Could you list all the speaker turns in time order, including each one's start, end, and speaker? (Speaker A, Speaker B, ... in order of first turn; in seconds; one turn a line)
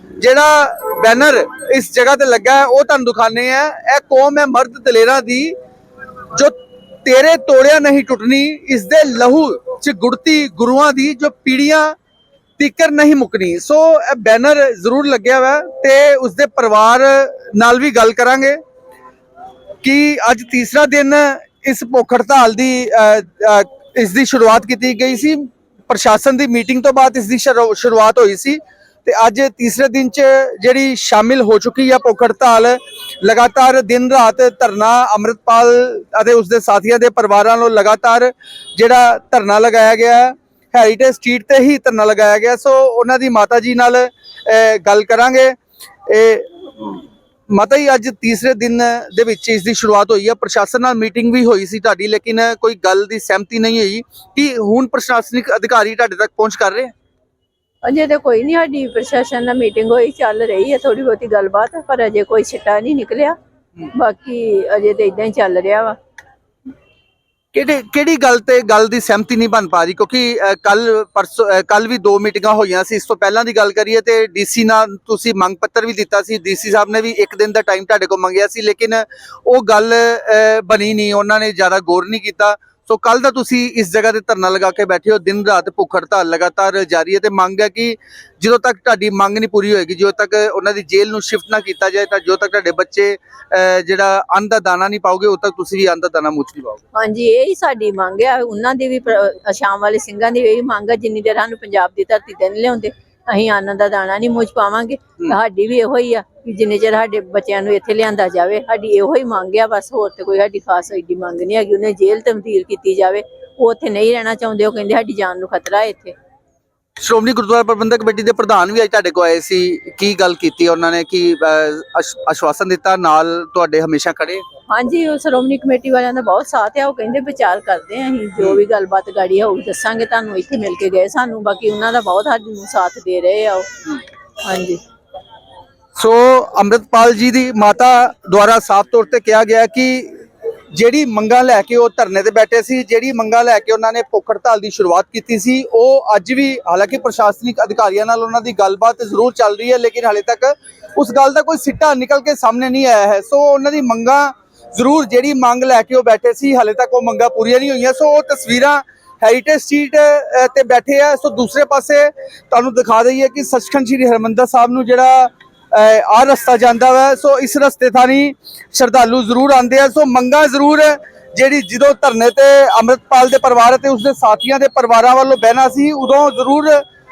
Speaker A: 0.2-5.5
Speaker A: 6.3-11.9
Speaker A: 12.6-18.6
Speaker A: 19.8-56.9
Speaker B: 57.8-63.4
Speaker B: 63.9-66.0
Speaker A: 67.5-96.8
Speaker B: 96.9-116.1
Speaker A: 117.0-124.4
Speaker B: 124.7-134.8
Speaker A: 136.0-176.8